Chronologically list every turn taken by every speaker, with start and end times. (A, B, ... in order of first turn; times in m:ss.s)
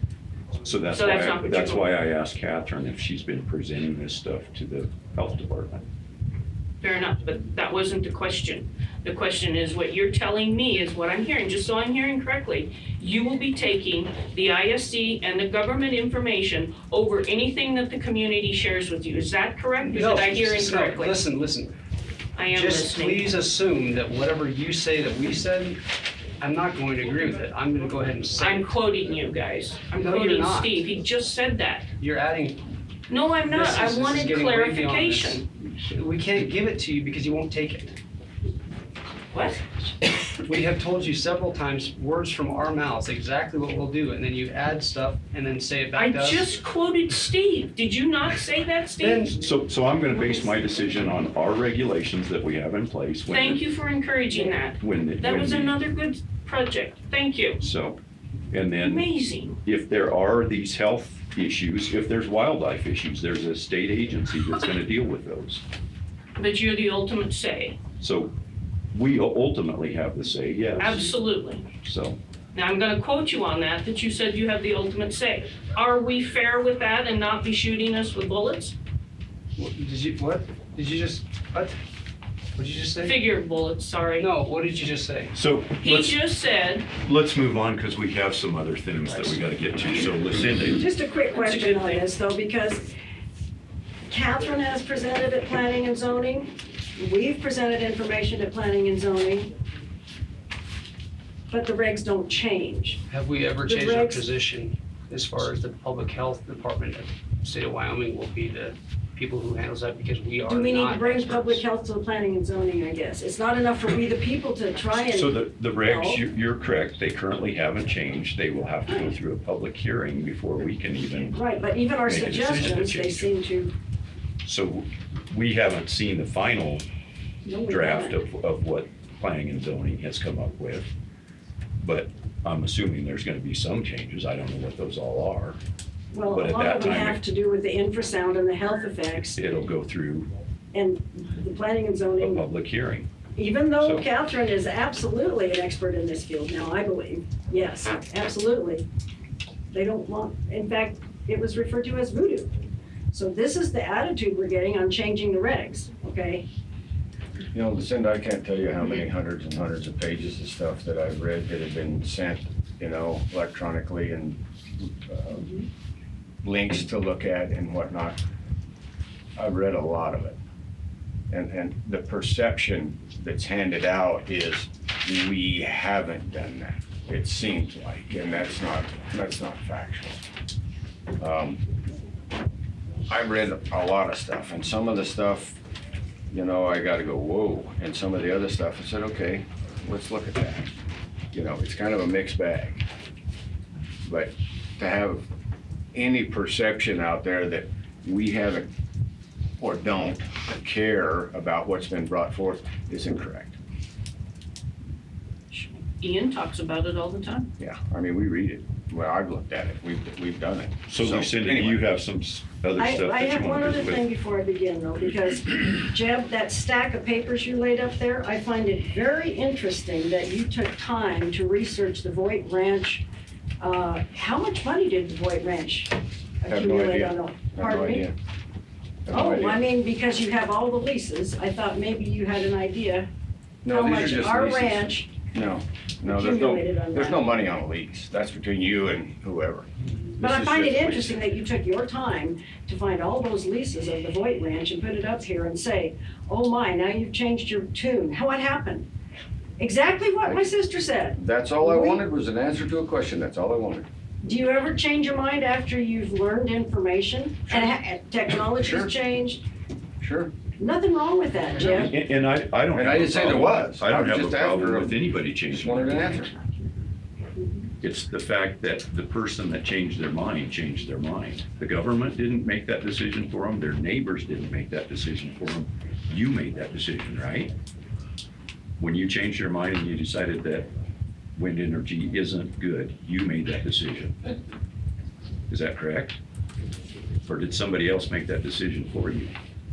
0:00.6-0:05.8 A
0:00.9-0:01.9 B
0:06.8-0:21.2 B
0:19.9-0:21.7 C
0:22.3-0:23.3 B
0:22.5-0:25.8 C
0:26.4-0:28.7 C
0:28.4-0:31.9 B
0:30.0-0:30.8 C
0:32.0-0:32.7 C
0:33.1-0:35.4 B
0:33.5-0:38.0 C
0:39.3-0:39.7 B
0:40.4-0:46.5 C
0:46.0-0:49.3 B
0:49.0-0:49.3 C
0:49.3-0:53.6 A
0:53.3-0:57.6 B
0:54.7-0:55.8 A
0:57.6-0:58.0 A
0:58.5-0:59.1 A
0:58.8-0:59.6 B
0:59.6-1:05.6 A
1:06.4-1:07.8 B
1:08.0-1:08.4 A
1:08.9-1:11.0 A
1:10.8-1:11.7 B
1:11.8-1:12.2 A
1:12.5-1:18.8 B
1:19.6-1:21.8 C
1:22.6-1:23.1 C
1:23.0-1:24.3 B
1:24.2-1:25.3 C
1:25.3-1:26.2 A
1:25.8-1:26.9 B
1:26.9-1:30.8 A
1:30.8-1:32.9 D
1:31.3-1:32.1 B
1:34.1-1:39.5 D
1:41.5-1:43.0 D
1:43.1-1:51.6 C
1:43.6-1:44.2 D
1:50.4-1:56.2 D
1:54.9-2:01.4 A
2:01.3-2:03.7 D
2:02.0-2:03.3 A
2:04.4-2:06.8 A
2:07.4-2:08.2 D
2:07.7-2:10.9 A
2:11.8-2:15.6 A
2:16.1-2:19.4 D
2:16.2-2:17.2 A
2:19.1-2:20.3 A
2:20.7-2:22.4 D
2:22.2-2:23.1 A
2:23.4-2:28.8 D
2:23.8-2:24.1 A
2:29.7-2:32.5 D
2:33.1-2:36.4 D
2:37.5-2:45.5 E
2:46.4-2:48.2 E
2:49.4-2:50.4 E
2:51.3-3:00.2 E
3:01.2-3:01.6 E
3:03.1-3:05.6 E
3:06.3-3:10.7 E
3:11.3-3:12.8 E
3:14.0-3:15.2 E
3:15.9-3:18.7 E
3:19.6-3:23.6 E
3:25.5-3:27.5 B
3:27.6-3:31.8 E
3:30.9-3:34.0 A
3:32.8-3:43.1 D
3:43.6-3:48.1 D
3:46.5-3:48.2 E
3:49.0-3:49.6 E
3:49.1-3:53.1 D
3:53.6-4:01.2 E
3:53.7-3:55.1 D
3:56.0-3:57.4 D
4:00.2-4:08.9 D
4:09.6-4:12.0 D
4:10.2-4:10.5 E
4:11.2-4:13.9 E
4:14.2-4:19.4 D
4:18.4-4:18.9 E
4:20.0-4:20.3 E
4:20.6-4:21.9 D
4:21.8-4:26.3 A
4:22.7-4:25.0 E
4:25.5-4:26.3 E
4:27.8-4:37.5 A
4:38.8-4:40.7 A
4:41.4-4:44.3 A
4:45.5-4:46.2 A
4:47.2-4:49.3 A